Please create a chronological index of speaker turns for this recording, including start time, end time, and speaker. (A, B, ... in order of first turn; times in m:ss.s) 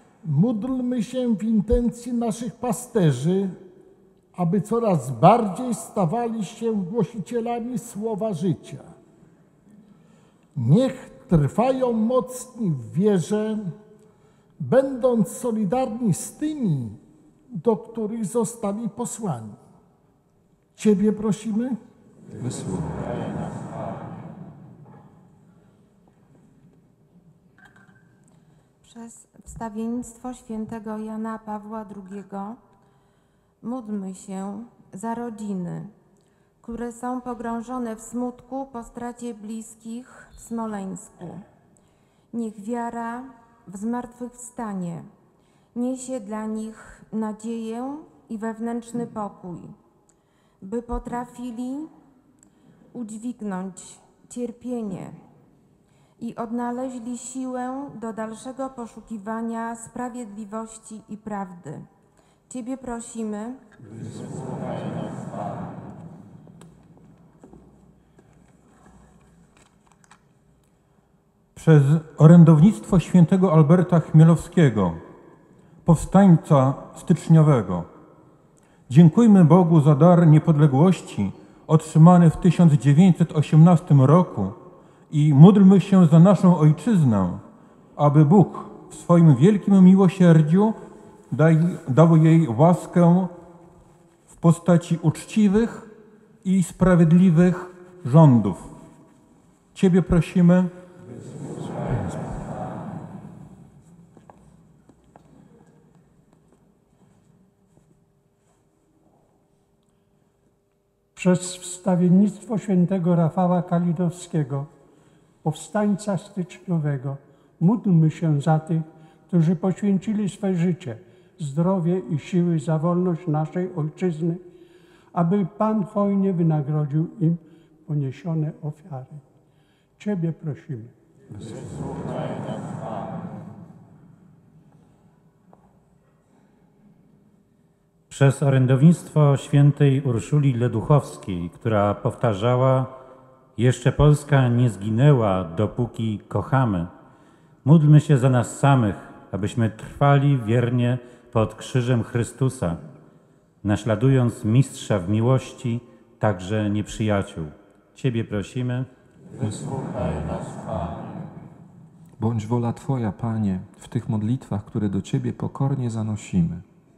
0:00.2-0:03.6 A
0:04.3-0:08.9 A
0:10.6-0:13.7 A
0:14.6-0:17.0 A
0:17.5-0:19.6 A
0:20.8-0:21.8 A
0:22.4-0:23.3 B
0:28.8-0:32.6 C
0:33.6-0:35.9 C
0:36.6-0:41.4 C
0:42.3-0:45.1 C
0:45.7-0:49.7 C
0:50.6-0:51.9 C
0:52.9-0:55.2 C
0:56.2-1:01.9 C
1:02.5-1:03.6 C
1:11.5-1:15.0 D
1:15.8-1:17.9 D
1:18.9-1:24.6 D
1:25.1-1:27.4 D
1:28.0-1:30.8 D
1:31.3-1:33.3 D
1:34.3-1:35.9 D
1:36.4-1:38.7 D
1:39.7-1:40.7 D
1:51.1-1:54.7 E
1:55.4-2:04.4 E
2:05.1-2:09.2 E
2:10.0-2:10.9 E
2:18.1-2:22.9 F
2:23.6-2:26.9 F
2:27.6-2:32.8 F
2:33.6-2:38.9 F
2:39.4-2:40.6 B
2:42.2-2:46.6 B